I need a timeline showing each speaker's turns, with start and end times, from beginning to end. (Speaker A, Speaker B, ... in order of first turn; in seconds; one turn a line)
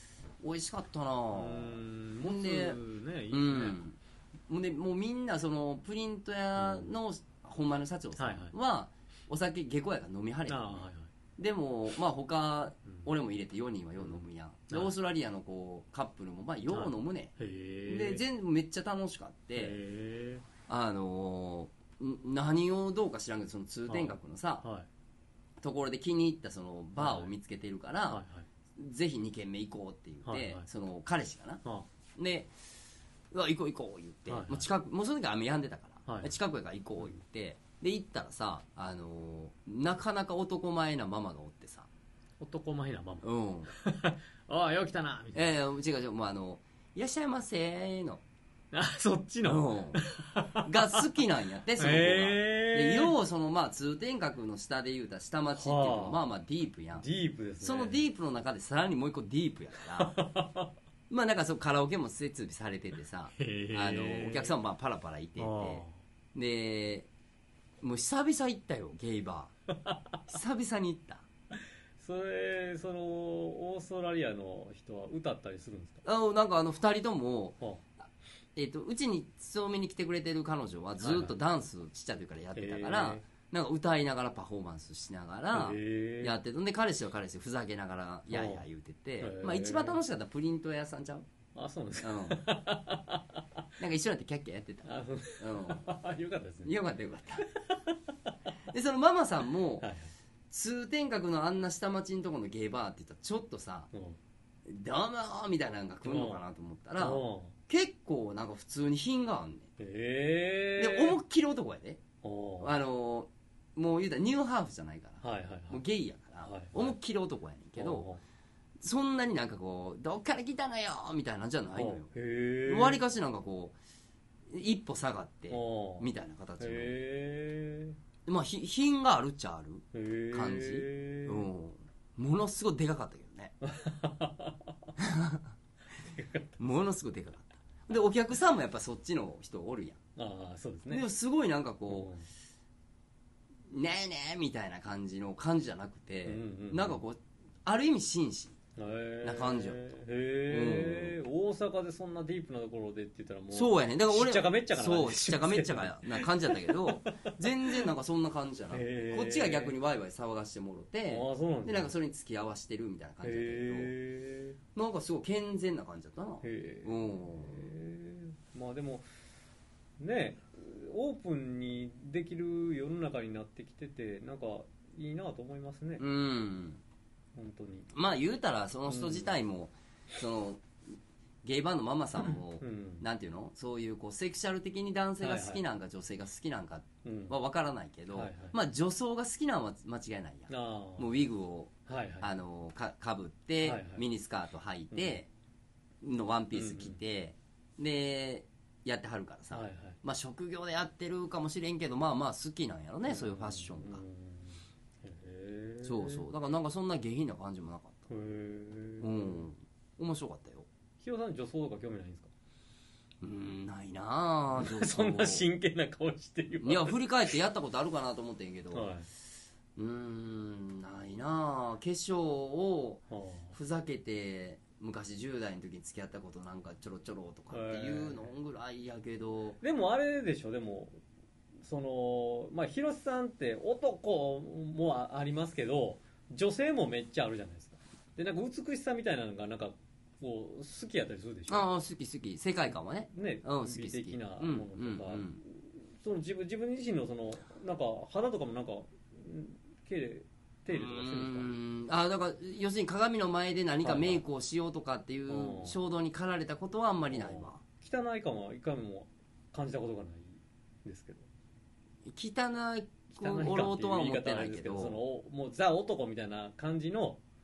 Speaker A: 0.4-2.8
Speaker B: 1.3-3.8
Speaker A: 3.3-4.0
Speaker A: 4.5-10.7
Speaker B: 6.6-6.9
Speaker B: 8.2-8.5
Speaker B: 10.5-11.1
Speaker A: 11.4-17.3
Speaker B: 14.0-14.9
Speaker B: 16.7-18.2
Speaker A: 17.9-19.8
Speaker B: 19.6-20.4
Speaker A: 20.7-24.6
Speaker B: 23.9-24.9
Speaker A: 25.6-28.2
Speaker B: 27.0-27.3
Speaker B: 28.1-28.5
Speaker A: 28.8-31.6
Speaker B: 30.3-30.7
Speaker A: 32.2-32.5
Speaker A: 33.3-41.9
Speaker B: 34.3-34.7
Speaker B: 36.1-36.3
Speaker B: 42.4-45.6
Speaker A: 43.2-43.7
Speaker A: 45.3-48.2
Speaker B: 48.7-51.0
Speaker A: 49.5-50.0
Speaker A: 50.6-57.1
Speaker B: 51.8-53.1
Speaker B: 55.5-56.2
Speaker B: 56.9-58.0
Speaker A: 57.6-60.2
Speaker B: 60.0-60.7
Speaker A: 61.1-65.8
Speaker B: 63.4-64.5
Speaker B: 65.4-66.0
Speaker A: 66.3-67.1
Speaker A: 67.8-69.5
Speaker B: 69.8-70.2
Speaker A: 70.3-71.2
Speaker B: 72.0-76.0
Speaker A: 76.0-77.6
Speaker A: 78.5-91.3
Speaker B: 81.0-81.4
Speaker B: 82.5-83.3
Speaker B: 85.5-86.3
Speaker B: 88.3-88.7
Speaker B: 89.2-90.0
Speaker B: 91.5-93.2
Speaker A: 92.0-92.4
Speaker A: 93.8-95.9
Speaker B: 94.8-96.8
Speaker A: 96.6-97.5
Speaker B: 97.5-98.0
Speaker A: 98.7-99.9
Speaker B: 99.8-100.1
Speaker A: 100.5-103.9
Speaker B: 103.9-104.2
Speaker A: 104.7-109.7
Speaker B: 106.0-106.4
Speaker B: 107.0-107.5
Speaker B: 109.8-111.2
Speaker A: 110.8-112.0
Speaker B: 112.2-112.7
Speaker A: 112.6-118.1
Speaker B: 115.2-115.8
Speaker B: 116.4-117.0
Speaker B: 117.8-118.2
Speaker A: 118.8-122.1
Speaker B: 121.8-123.0
Speaker A: 122.7-123.8
Speaker A: 124.5-127.0
Speaker B: 125.5-126.1
Speaker B: 126.6-128.0
Speaker A: 128.3-133.5
Speaker B: 129.9-131.5
Speaker B: 133.6-134.8
Speaker A: 135.0-135.4
Speaker B: 136.0-136.6
Speaker A: 136.6-140.0
Speaker B: 140.2-141.0
Speaker A: 140.9-142.1
Speaker B: 141.9-142.2
Speaker A: 143.7-148.6
Speaker B: 146.2-147.0
Speaker B: 148.8-157.8
Speaker A: 149.2-149.8
Speaker A: 150.5-151.2
Speaker A: 153.5-163.9
Speaker B: 158.7-159.8
Speaker B: 161.1-161.9
Speaker B: 163.2-164.6
Speaker A: 164.8-167.7
Speaker B: 166.4-169.1
Speaker B: 170.0-176.0
Speaker A: 176.0-176.8
Speaker B: 177.4-177.9
Speaker A: 177.9-180.7
Speaker B: 178.9-179.3
Speaker A: 181.4-195.3
Speaker B: 182.3-183.0
Speaker B: 185.2-185.6
Speaker B: 187.0-187.3
Speaker B: 188.1-188.6
Speaker B: 190.5-191.3
Speaker B: 191.9-192.3
Speaker B: 193.6-194.1
Speaker B: 194.9-195.2
Speaker A: 196.0-204.0
Speaker B: 196.5-197.0
Speaker B: 199.5-200.0
Speaker B: 203.1-206.2
Speaker A: 205.8-208.1
Speaker B: 208.1-209.4
Speaker A: 209.0-210.7
Speaker B: 211.0-212.3
Speaker A: 213.2-215.5
Speaker B: 214.6-217.0
Speaker A: 216.6-218.9
Speaker B: 218.7-219.1
Speaker A: 219.8-229.6
Speaker B: 223.1-223.5
Speaker B: 227.5-228.2
Speaker B: 229.6-231.0
Speaker B: 231.6-241.7
Speaker A: 241.5-245.4
Speaker B: 243.1-251.5
Speaker A: 250.7-257.6
Speaker B: 253.8-254.2
Speaker B: 255.3-255.8
Speaker B: 257.1-261.3
Speaker A: 262.1-265.0
Speaker B: 263.1-267.2